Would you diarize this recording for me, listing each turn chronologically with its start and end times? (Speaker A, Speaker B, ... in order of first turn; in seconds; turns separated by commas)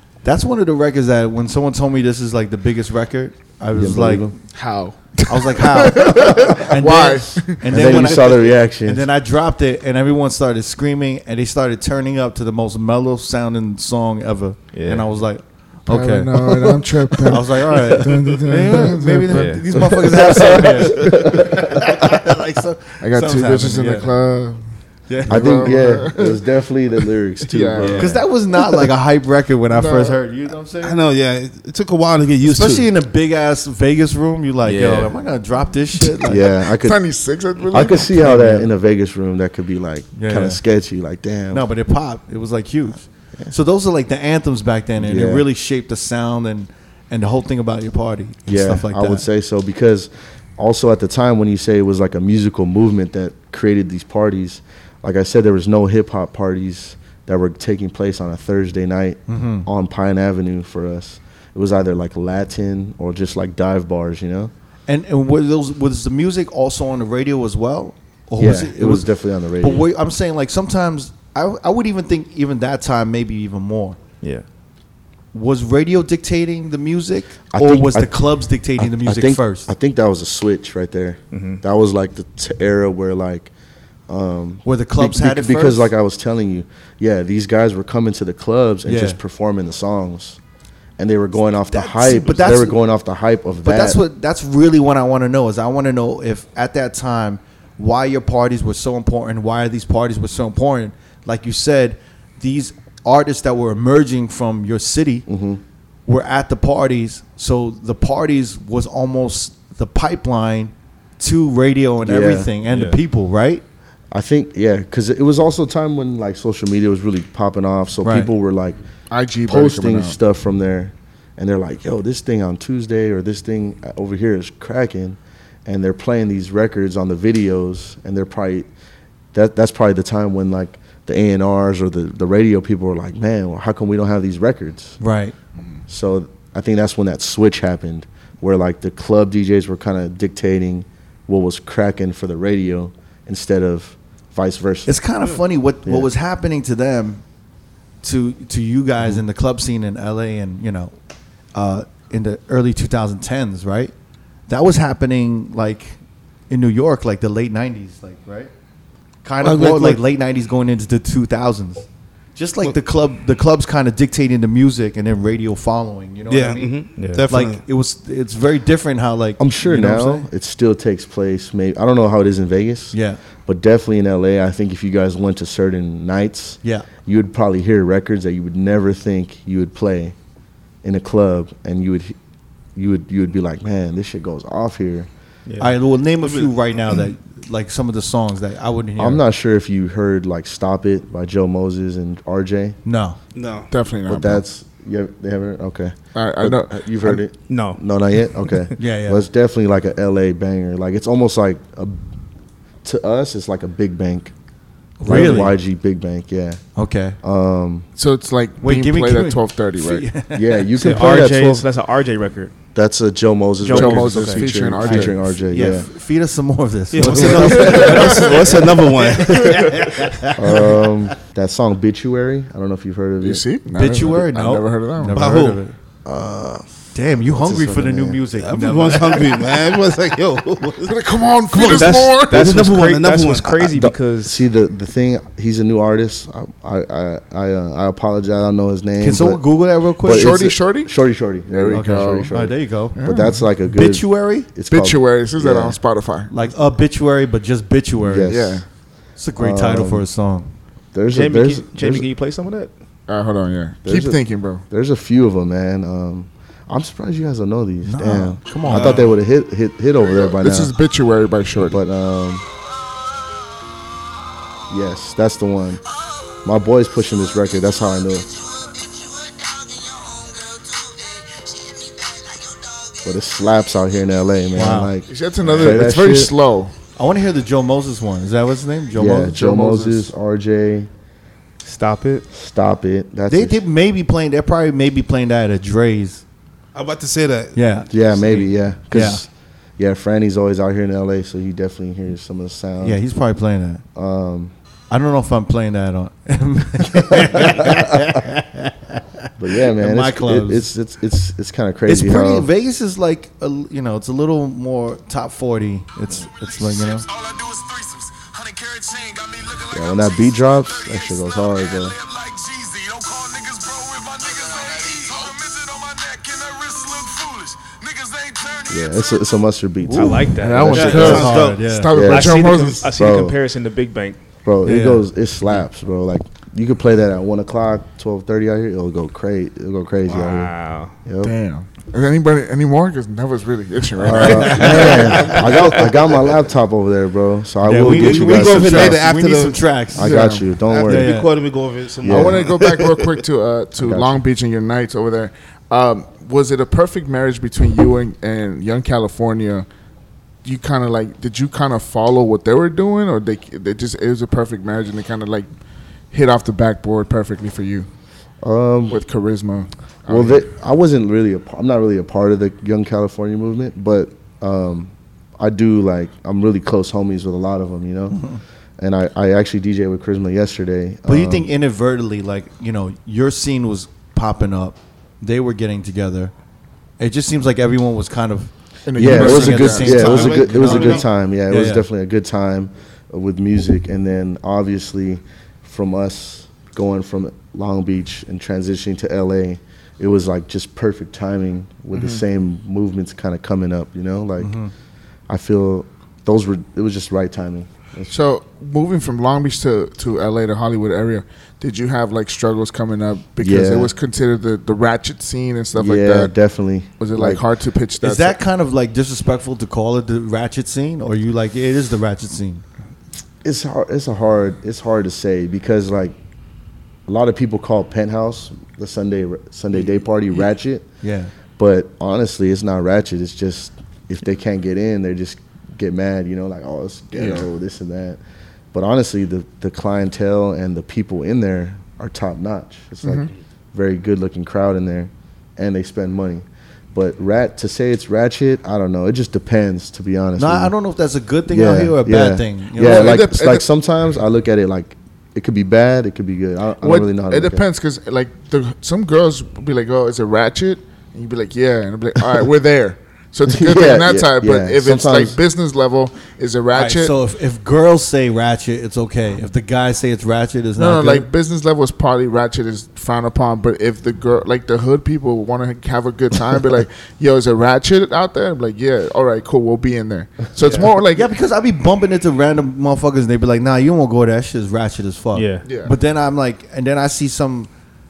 Speaker A: 0.2-4.3, Speaker B: 3.7-4.3, Speaker C: 4.5-8.0, Speaker A: 5.2-24.1, Speaker B: 7.7-9.1, Speaker D: 14.7-15.1, Speaker C: 15.9-19.5, Speaker B: 17.3-17.8, Speaker D: 19.3-19.7, Speaker B: 19.7-22.1, Speaker C: 23.0-24.7, Speaker A: 25.1-25.8, Speaker C: 25.2-26.4, Speaker B: 25.3-28.2, Speaker C: 27.4-28.1, Speaker D: 27.8-28.2, Speaker A: 28.0-31.0, Speaker C: 29.7-30.2, Speaker E: 30.8-32.9, Speaker A: 32.4-36.5, Speaker D: 34.6-35.1, Speaker B: 36.2-37.0, Speaker C: 36.8-38.1, Speaker B: 37.7-41.6, Speaker A: 38.0-38.7, Speaker A: 40.2-40.6, Speaker A: 41.5-49.3, Speaker B: 45.0-45.5, Speaker B: 48.5-64.5, Speaker A: 59.3-59.7, Speaker A: 64.9-69.1, Speaker B: 68.4-69.9, Speaker A: 69.6-74.0, Speaker A: 75.3-79.7, Speaker B: 77.5-78.2, Speaker B: 78.8-83.5, Speaker D: 81.3-81.6, Speaker B: 84.1-90.4, Speaker A: 84.7-85.9, Speaker A: 88.8-89.2, Speaker B: 91.0-94.0, Speaker A: 91.7-92.8, Speaker A: 93.6-105.3, Speaker B: 105.3-105.6, Speaker A: 106.1-113.6, Speaker B: 112.0-112.5, Speaker D: 112.7-113.0, Speaker B: 114.1-118.8, Speaker A: 118.0-118.3, Speaker C: 119.1-120.2, Speaker B: 119.5-128.7, Speaker B: 129.3-135.0, Speaker A: 135.0-135.3, Speaker B: 135.9-145.0, Speaker A: 144.9-147.2, Speaker B: 145.8-146.1, Speaker A: 148.0-150.9, Speaker A: 151.5-153.9, Speaker A: 154.5-156.0, Speaker A: 156.5-158.5, Speaker A: 159.2-170.3, Speaker E: 159.4-160.0, Speaker E: 166.3-167.6, Speaker D: 167.0-167.3, Speaker B: 169.4-180.2, Speaker A: 172.9-173.2, Speaker B: 180.8-182.2, Speaker B: 182.8-185.1, Speaker D: 185.5-185.8, Speaker A: 185.6-189.2, Speaker E: 186.2-186.6, Speaker B: 189.0-192.8, Speaker A: 192.8-193.2, Speaker E: 193.3-193.7, Speaker C: 193.7-194.4, Speaker B: 194.1-202.0, Speaker C: 196.2-197.2, Speaker D: 197.5-197.8, Speaker A: 198.8-199.2, Speaker B: 202.8-204.3, Speaker A: 205.0-205.6, Speaker B: 205.1-206.6, Speaker A: 206.8-207.2, Speaker B: 207.2-207.9, Speaker C: 208.0-210.1, Speaker A: 208.6-210.7, Speaker B: 210.3-211.7, Speaker D: 210.8-212.6, Speaker B: 212.7-215.9, Speaker D: 213.6-214.7, Speaker C: 213.7-215.3, Speaker A: 214.8-220.9, Speaker E: 216.9-220.0, Speaker D: 217.0-218.3, Speaker C: 217.6-218.5, Speaker B: 220.4-223.4, Speaker C: 223.2-225.2, Speaker A: 223.7-225.8, Speaker E: 225.1-225.6, Speaker B: 226.1-226.7, Speaker A: 226.9-229.4, Speaker B: 227.2-228.2, Speaker E: 228.4-233.7, Speaker C: 230.8-232.6, Speaker D: 231.6-234.4, Speaker B: 233.7-239.4, Speaker A: 239.0-240.4, Speaker B: 240.0-245.8, Speaker C: 240.1-240.9, Speaker C: 241.5-242.3, Speaker A: 241.7-243.0, Speaker C: 242.9-243.4, Speaker A: 243.7-244.5, Speaker C: 244.7-246.3, Speaker A: 246.3-248.4, Speaker B: 248.0-248.7, Speaker C: 248.3-248.7, Speaker A: 249.2-250.5, Speaker B: 249.4-250.1, Speaker B: 250.9-252.1, Speaker D: 251.1-252.7, Speaker C: 253.1-254.6, Speaker B: 253.8-260.7, Speaker A: 257.9-259.1, Speaker C: 260.1-261.8, Speaker B: 261.7-262.4, Speaker B: 264.7-265.8, Speaker B: 266.4-268.3, Speaker E: 269.7-271.0, Speaker B: 273.0-276.3, Speaker A: 274.5-274.9, Speaker C: 275.1-276.7, Speaker A: 275.5-275.9, Speaker A: 277.0-279.4, Speaker B: 278.9-280.9, Speaker C: 279.3-280.1, Speaker D: 281.6-282.3, Speaker B: 282.3-283.6, Speaker A: 283.3-286.2, Speaker E: 286.7-287.8, Speaker A: 287.5-289.2, Speaker B: 287.9-293.0, Speaker A: 292.8-293.8, Speaker B: 293.9-294.5, Speaker A: 294.9-300.7, Speaker B: 297.1-298.2, Speaker B: 299.4-302.5, Speaker A: 301.9-307.1, Speaker E: 306.8-310.1, Speaker B: 309.7-312.0, Speaker E: 310.8-311.2, Speaker E: 311.8-318.8, Speaker B: 318.7-320.9, Speaker A: 319.9-321.9, Speaker D: 319.9-321.4, Speaker C: 320.4-322.9, Speaker E: 320.7-321.6, Speaker B: 321.9-323.4, Speaker D: 322.0-324.2, Speaker B: 324.4-331.3, Speaker A: 324.6-325.1, Speaker D: 330.1-330.9, Speaker C: 331.2-335.5, Speaker B: 334.0-339.0, Speaker A: 334.1-335.9, Speaker A: 337.6-341.3, Speaker E: 337.8-339.8, Speaker B: 339.9-341.1, Speaker C: 340.0-340.5, Speaker E: 340.6-342.8, Speaker B: 342.0-342.5, Speaker C: 342.0-349.7, Speaker B: 343.8-344.2, Speaker C: 350.4-355.5, Speaker C: 356.1-357.9, Speaker B: 358.4-359.0, Speaker C: 358.9-360.4, Speaker B: 360.1-368.2, Speaker A: 368.1-368.4, Speaker B: 368.8-371.5, Speaker A: 371.1-376.3, Speaker A: 377.0-381.9, Speaker C: 378.9-380.2, Speaker B: 379.0-394.6, Speaker E: 379.3-381.1, Speaker C: 391.9-392.2, Speaker A: 394.4-394.7, Speaker B: 395.3-398.1, Speaker C: 398.1-406.3, Speaker B: 403.4-403.9, Speaker B: 405.7-407.4, Speaker C: 407.0-408.4, Speaker A: 408.0-412.6, Speaker B: 413.4-416.1, Speaker B: 417.1-420.9, Speaker A: 421.0-421.3, Speaker B: 421.6-428.2, Speaker C: 427.1-427.5, Speaker B: 428.7-440.7, Speaker C: 433.0-433.3, Speaker A: 440.4-443.2, Speaker B: 441.5-447.6, Speaker C: 442.8-443.6, Speaker C: 446.8-457.1, Speaker B: 453.5-455.4, Speaker A: 456.7-461.3, Speaker C: 460.8-471.3, Speaker A: 470.6-477.7, Speaker D: 475.3-475.7, Speaker C: 475.6-475.9